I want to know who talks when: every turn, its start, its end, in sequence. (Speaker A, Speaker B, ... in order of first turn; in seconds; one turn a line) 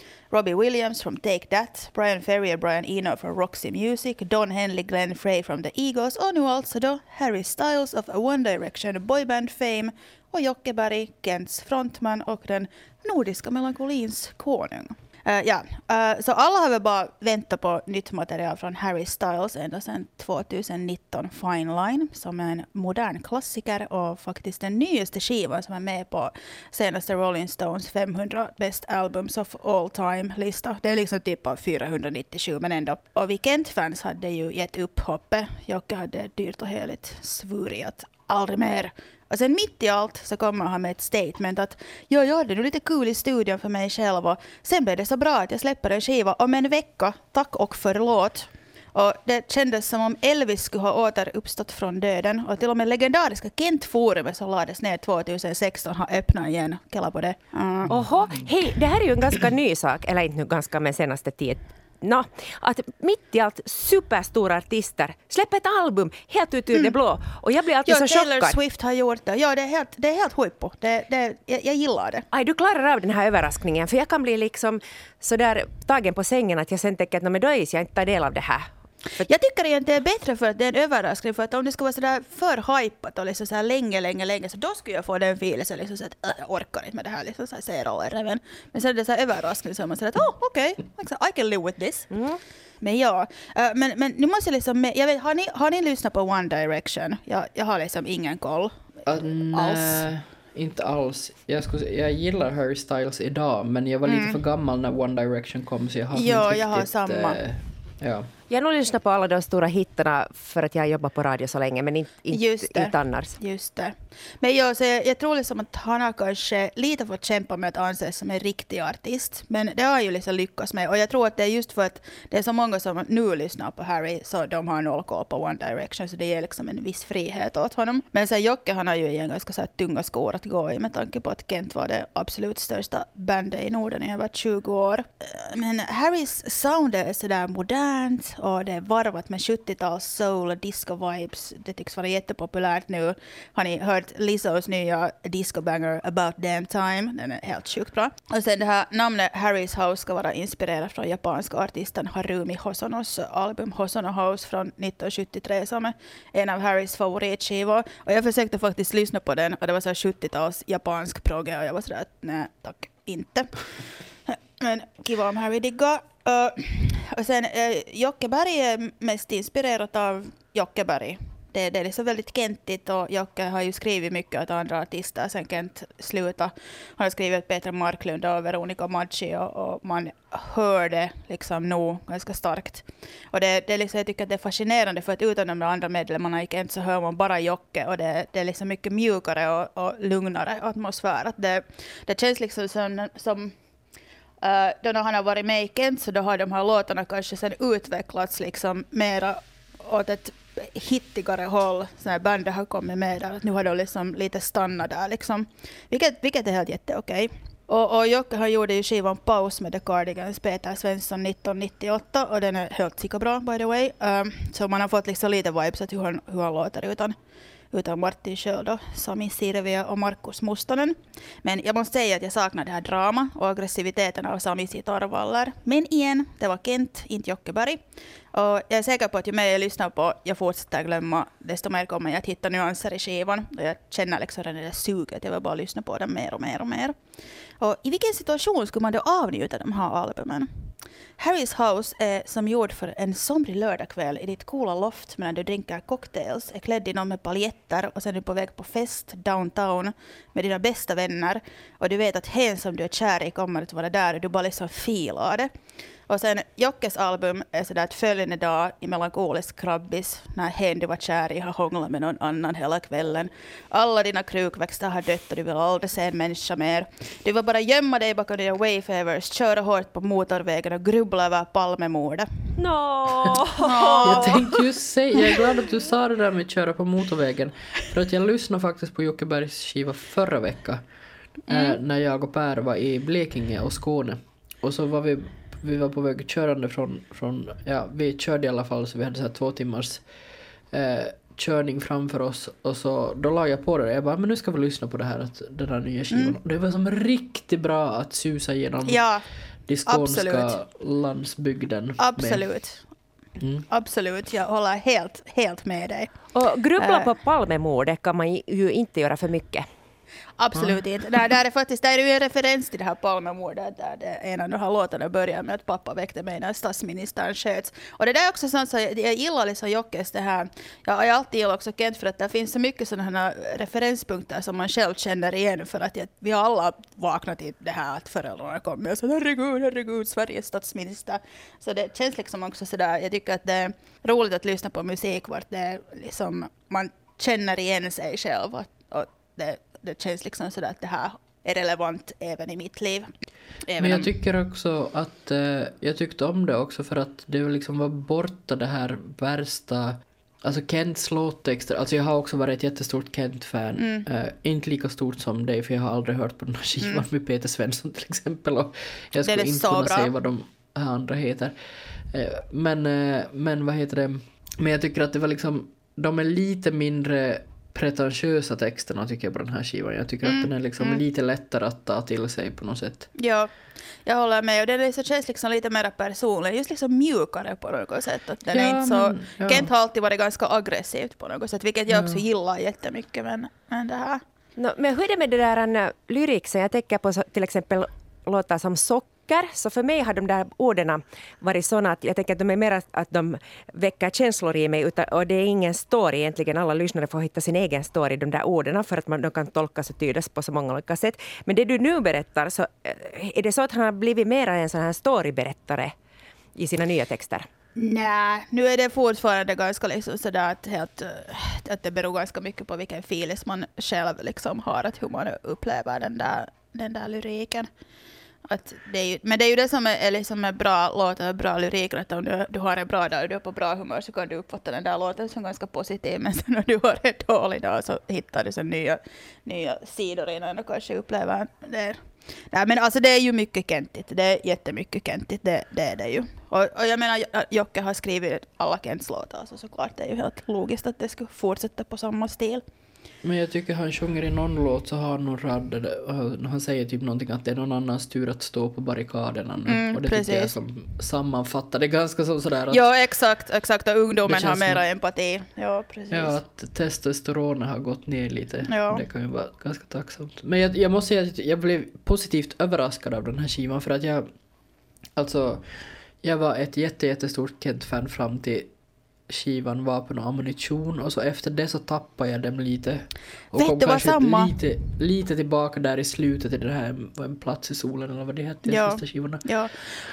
Speaker A: 0.3-57.9
Speaker B: 57.9-58.5
Speaker C: 57.9-68.6
Speaker A: 67.9-72.2
Speaker C: 72.3-78.7
Speaker A: 79.2-92.1
Speaker C: 92.1-92.4
Speaker A: 92.8-100.1
Speaker B: 99.1-108.3
Speaker A: 104.1-104.4
Speaker A: 106.1-107.4
Speaker C: 108.5-113.4
Speaker A: 112.3-163.6
Speaker A: 164.3-193.5
Speaker A: 194.4-217.2
Speaker A: 217.7-227.8
Speaker A: 228.3-236.9
Speaker A: 237.6-240.5
Speaker A: 241.2-255.5
Speaker A: 256.1-272.3
Speaker C: 272.6-274.4
Speaker A: 273.6-274.5
Speaker B: 274.1-280.8
Speaker A: 281.5-281.8
Speaker B: 281.5-290.0
Speaker B: 290.7-299.0
Speaker A: 296.1-296.4
Speaker A: 298.9-299.2
Speaker B: 299.7-302.4
Speaker A: 299.9-300.6
Speaker A: 302.0-302.8
Speaker B: 303.4-303.6
Speaker A: 303.7-306.1
Speaker C: 306.3-309.6
Speaker A: 306.8-307.1
Speaker A: 310.4-343.1
Speaker B: 310.5-310.8
Speaker A: 343.6-344.1
Speaker B: 343.8-361.6
Speaker A: 353.8-354.1
Speaker A: 359.2-360.1
Speaker B: 362.1-373.1
Speaker A: 370.2-371.0
Speaker A: 373.1-373.5
Speaker A: 374.1-384.2
Speaker B: 378.5-379.7
Speaker B: 381.9-382.2
Speaker C: 384.6-405.9
Speaker C: 406.6-407.5
Speaker A: 407.8-417.7
Speaker A: 418.4-432.0
Speaker A: 432.5-442.6
Speaker B: 443.2-452.8
Speaker A: 449.7-450.5
Speaker A: 452.7-456.4
Speaker B: 454.2-454.8
Speaker B: 456.1-464.2
Speaker A: 458.7-459.0
Speaker B: 465.1-465.6
Speaker B: 466.2-468.7
Speaker B: 469.3-479.4
Speaker A: 473.5-474.5
Speaker A: 478.6-479.8